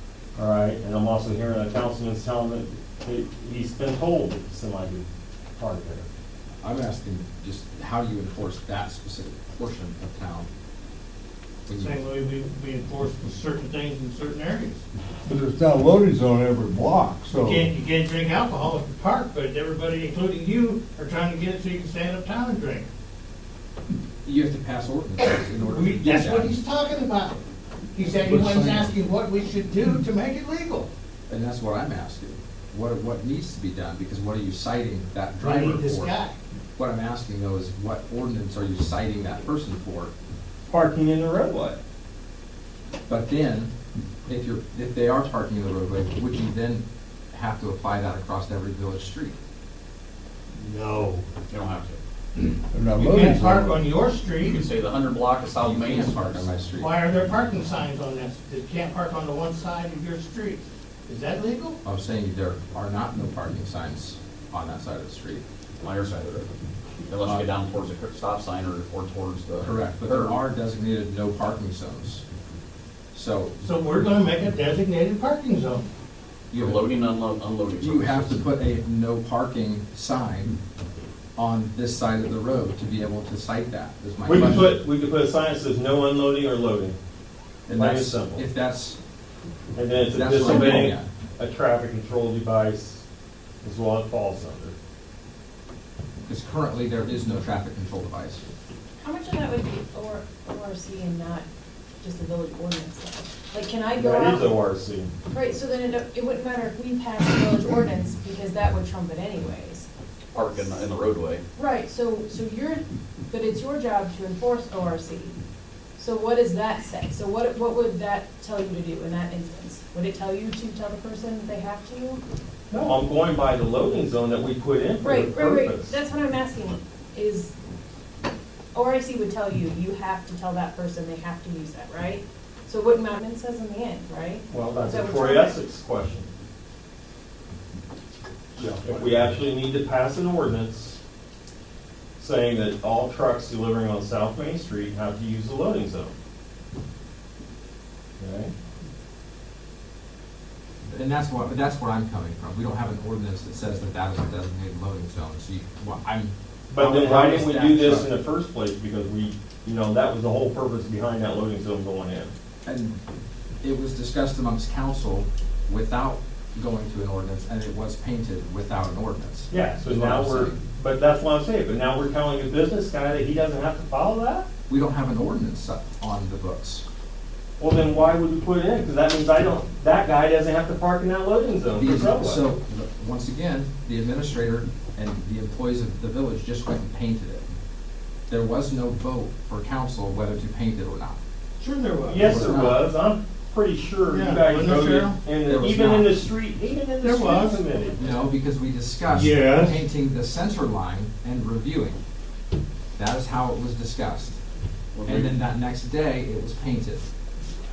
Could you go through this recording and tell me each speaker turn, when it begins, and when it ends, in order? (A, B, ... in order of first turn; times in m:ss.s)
0:00.4-0:06.1 A
0:06.6-0:10.5 B
0:11.7-0:12.0 B
0:11.7-0:14.8 C
0:15.2-0:17.7 D
0:17.3-0:22.9 C
0:24.2-0:26.5 B
0:25.6-0:27.4 C
0:27.9-0:30.9 C
0:28.2-0:28.9 B
0:31.3-0:36.1 B
0:35.4-0:36.4 C
0:36.8-0:40.1 B
0:40.7-0:41.8 A
0:43.1-0:43.7 B
0:44.2-0:49.4 B
0:50.6-0:51.2 C
0:51.5-0:52.0 E
0:52.7-0:53.9 D
0:52.9-0:54.7 C
0:54.4-0:56.5 E
0:55.6-0:57.0 B
0:56.7-1:01.8 C
1:01.8-1:05.4 B
1:05.8-1:06.5 E
1:07.1-1:10.4 E
1:09.6-1:12.2 B
1:13.1-1:13.5 B
1:13.6-1:15.8 C
1:16.5-1:16.8 B
1:16.5-1:18.4 E
1:17.8-1:20.6 B
1:21.4-1:24.8 B
1:24.2-1:27.0 A
1:27.7-1:29.0 B
1:27.7-1:28.4 A
1:29.8-1:33.0 A
1:30.1-1:31.1 B
1:30.4-1:30.8 F
1:33.6-1:34.7 A
1:36.2-1:38.4 B
1:39.0-1:41.4 F
1:42.0-1:44.5 F
1:44.0-1:45.1 A
1:45.3-1:50.8 F
1:50.3-1:51.4 E
1:51.6-1:55.4 F
1:56.0-2:02.2 F
2:02.8-2:06.0 A
2:05.0-2:07.5 F
2:08.7-2:15.6 F
2:14.5-2:16.3 A
2:18.6-2:18.9 D
2:18.6-2:21.0 A
2:22.2-2:26.1 A
2:28.2-2:28.5 A
2:30.9-2:38.1 B
2:36.7-2:42.3 A
2:42.6-2:43.0 B
2:43.6-2:50.6 B
2:49.5-2:54.5 A
2:54.7-2:56.8 B
2:57.6-3:02.5 A
3:01.7-3:07.5 B
3:08.3-3:11.2 B
3:11.6-3:12.5 C
3:12.1-3:18.2 A
3:12.2-3:12.8 B
3:14.0-3:15.2 C
3:15.5-3:16.3 B
3:17.0-3:17.7 C
3:18.0-3:22.0 B
3:19.1-3:19.8 C
3:23.0-3:24.4 B
3:24.9-3:25.4 E
3:25.0-3:27.0 B